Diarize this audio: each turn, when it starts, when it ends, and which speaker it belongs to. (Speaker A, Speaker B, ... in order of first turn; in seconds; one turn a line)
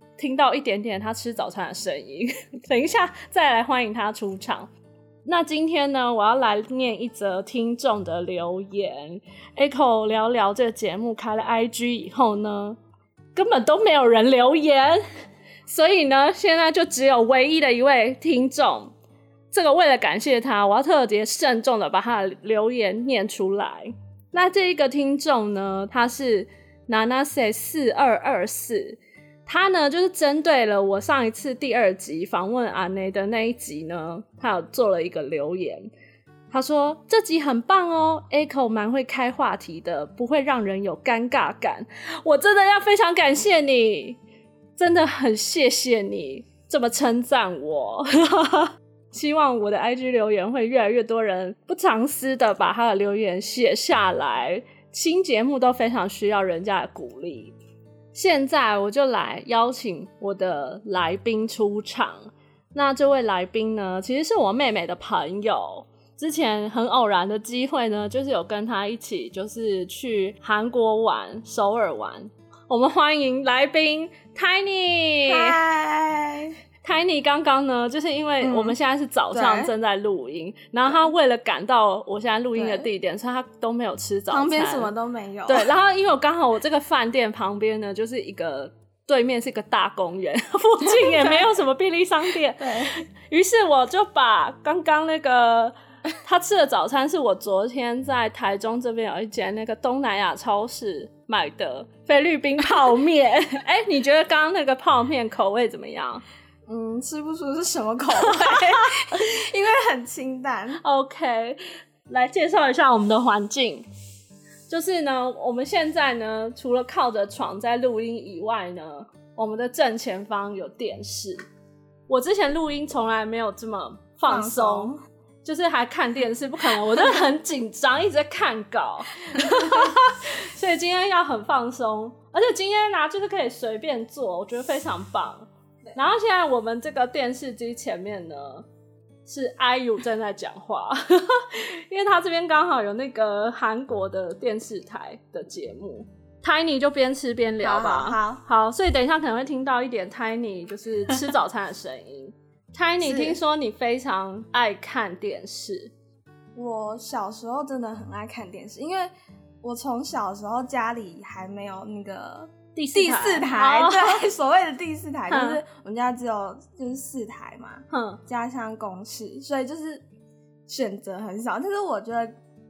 Speaker A: 0.2-4.7
Speaker A: 5.3-12.8
Speaker A: 13.3-15.0
Speaker A: 15.7-18.9
Speaker A: 19.5-35.9
Speaker A: 36.5-44.2
Speaker A: 44.8-57.5
Speaker A: 58.1-75.6
Speaker B: 75.3-76.6
Speaker A: 76.8-84.9
Speaker B: 78.4-78.8
Speaker B: 79.3-79.7
Speaker B: 82.5-82.9
Speaker B: 84.3-85.7
Speaker A: 85.5-106.2
Speaker B: 90.8-91.5
Speaker B: 92.6-92.9
Speaker B: 106.7-110.8
Speaker A: 108.2-109.1
Speaker A: 110.8-113.9
Speaker A: 114.7-121.4
Speaker A: 122.1-138.7
Speaker B: 124.3-125.0
Speaker B: 129.3-129.9
Speaker A: 139.3-155.9
Speaker B: 147.6-148.4
Speaker B: 153.0-153.4
Speaker B: 156.6-170.0
Speaker A: 162.8-164.2
Speaker A: 165.3-165.6
Speaker A: 167.9-168.2
Speaker B: 170.7-172.4